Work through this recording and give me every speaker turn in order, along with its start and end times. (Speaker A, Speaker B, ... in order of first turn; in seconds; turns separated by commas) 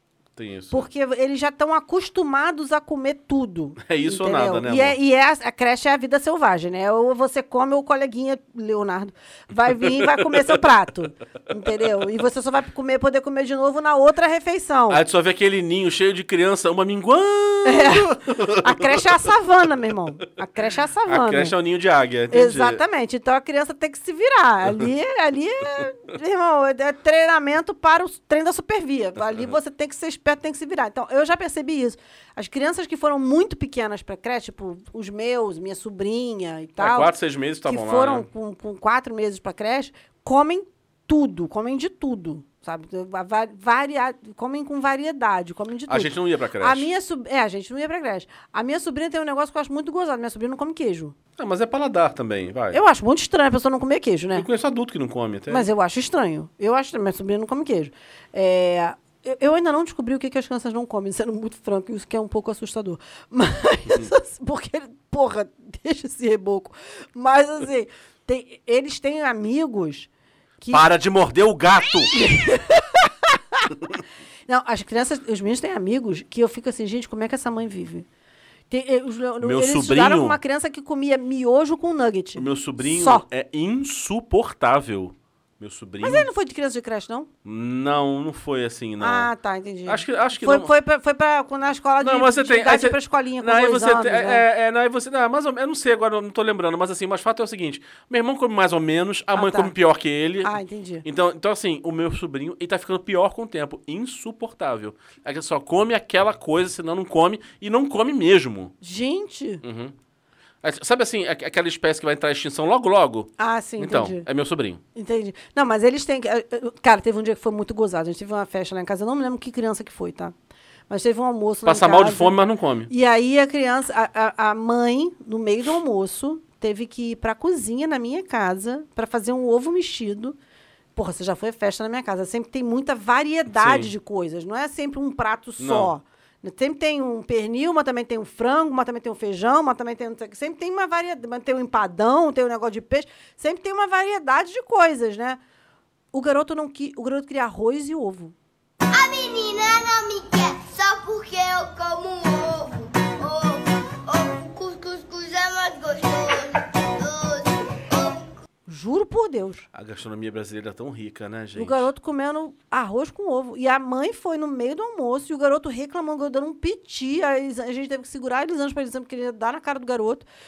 Speaker A: 0.3-0.9, Speaker B: 0.7-15.0, Speaker A: 3.8-5.0, Speaker A: 9.7-10.6, Speaker A: 14.9-19.1, Speaker B: 17.6-21.5, Speaker A: 21.1-22.8, Speaker B: 22.3-37.1, Speaker A: 36.8-38.3, Speaker B: 37.6-51.1, Speaker A: 45.9-46.9, Speaker A: 51.4-52.8, Speaker B: 52.7-54.5, Speaker A: 54.3-55.7, Speaker B: 55.5-70.1, Speaker B: 70.6-70.8, Speaker A: 70.7-72.2, Speaker B: 72.1-73.7, Speaker B: 74.5-78.0, Speaker B: 78.7-83.2, Speaker A: 79.4-80.4, Speaker A: 82.3-86.3, Speaker B: 86.0-87.3, Speaker A: 87.4-89.3, Speaker B: 89.0-94.4, Speaker A: 89.8-90.7, Speaker A: 92.0-108.7, Speaker B: 99.3-99.7, Speaker B: 100.4-101.0, Speaker B: 108.8-109.6, Speaker A: 109.6-109.9, Speaker A: 110.6-114.8, Speaker B: 113.4-114.2, Speaker B: 114.9-120.3, Speaker B: 120.9-122.4, Speaker A: 121.6-122.9, Speaker B: 122.9-130.4, Speaker B: 130.9-145.4, Speaker A: 133.5-133.9, Speaker A: 135.6-135.9, Speaker B: 146.1-148.3, Speaker C: 148.9-158.3, Speaker B: 158.7-159.7, Speaker A: 159.7-161.9, Speaker B: 161.6-170.2